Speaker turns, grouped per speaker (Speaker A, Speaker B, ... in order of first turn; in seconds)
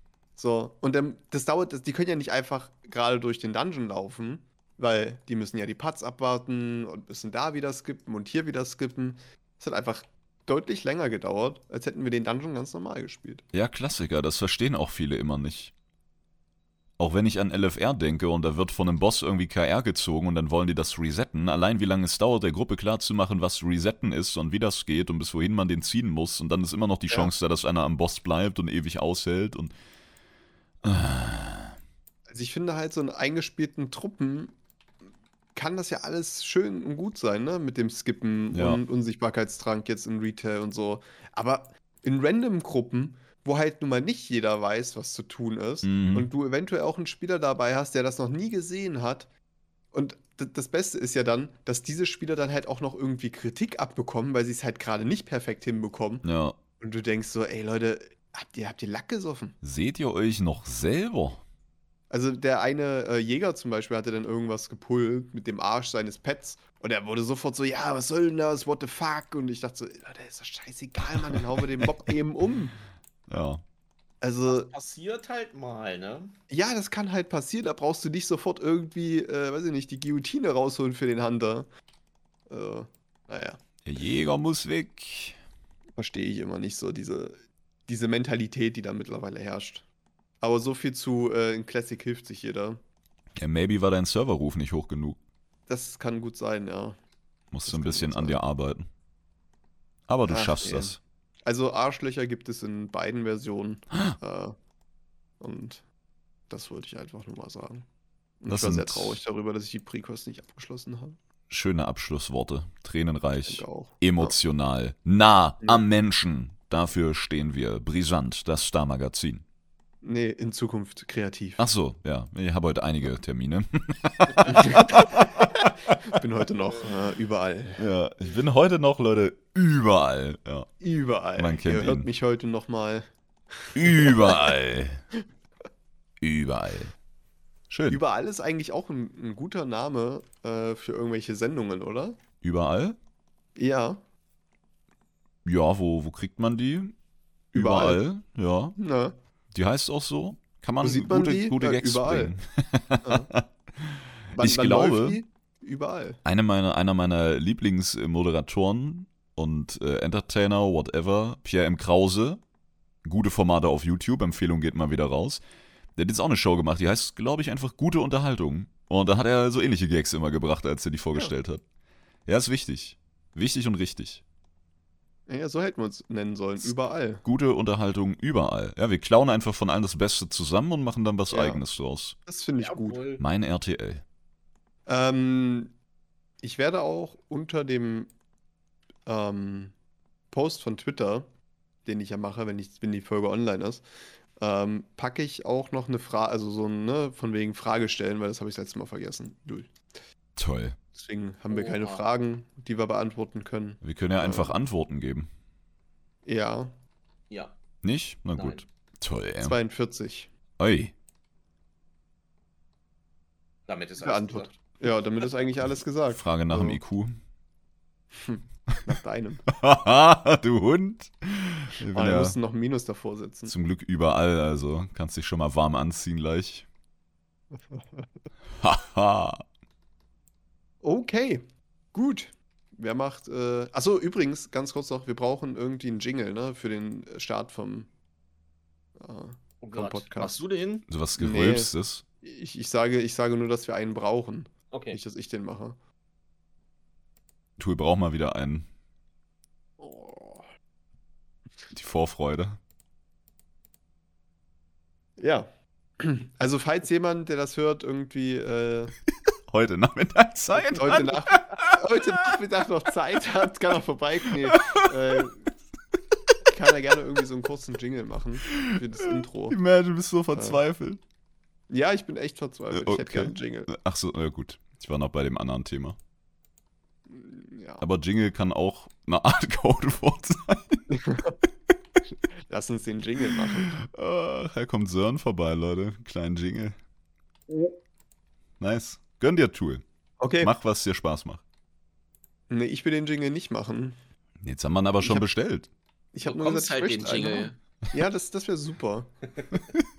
Speaker A: 0.4-13.4, 32.3-34.5, 35.5-49.3, 49.9-56.3, 56.8-59.6, 62.1-72.8, 74.2-74.7, 76.5-81.7, 82.5-83.6, 86.0-89.9, 90.4-92.8, 95.7-97.0, 97.7-98.4, 100.3-104.6, 105.4-105.9, 106.5-107.9, 108.4-111.2, 113.4-114.4, 115.6-115.9, 120.0-121.7, 124.5-127.8, 130.8-134.5, 137.9-142.2, 143.6-144.0, 147.5-148.0, 148.8-149.2, 150.8-152.3, 153.0-153.3, 154.3-156.2, 175.3-177.2, 181.3-181.6, 182.3-183.0, 184.9-185.7, 186.4-188.1, 189.1-189.7, 190.3-191.3, 191.8-199.7, 200.9-204.6, 206.2-206.8, 209.4-210.3, 214.0-216.8, 218.2-219.4, 221.9-223.6, 227.5-228.1, 230.8-237.9, 239.0-240.4, 241.2-245.8, 249.8-250.5, 255.2-255.5, 256.0-258.9, 260.7-265.5, 266.5-269.6, 270.3-270.6, 271.7-273.7, 277.1-277.9, 280.9-281.4, 282.5-283.8, 287.5-287.8, 290.2-290.5, 292.5-294.0, 295.0-295.3, 296.1-299.1
Speaker B: 13.5-15.7, 17.0-29.7, 30.8-31.8, 38.5-38.8, 45.8-46.3, 56.2-56.6, 59.6-61.4, 71.3-71.9, 73.3-73.6, 83.8-85.4, 93.4-95.2, 97.5-98.9, 100.1-101.0, 108.5-109.2, 111.5-119.4, 121.6-126.0, 127.8-130.7, 131.4-132.1, 133.8-135.0, 136.2-136.9, 137.7-138.0, 142.4-143.0, 145.4-146.9, 147.5-148.8, 149.5-155.2, 156.2-162.4, 163.0-165.4, 166.0-171.6, 172.3-174.2, 176.6-182.2, 183.2-184.0, 200.4-200.8, 203.8-205.3, 207.8-209.6, 210.6-210.9, 216.1-217.2, 219.5-222.4, 223.5-226.7, 228.6-229.4, 240.9-242.0, 247.6-248.7, 251.7-252.6, 259.5-262.3, 264.5-265.3, 268.5-271.0, 272.7-276.0, 277.8-280.8, 283.8-286.8, 288.6-289.8, 290.4-291.4, 294.4-295.7
Speaker C: 74.5-76.4, 182.6-183.2, 201.5-202.0, 207.3-207.6, 208.3-208.6, 213.7-214.5, 239.6-240.9, 244.7-245.0, 296.2-297.6, 299.4-299.7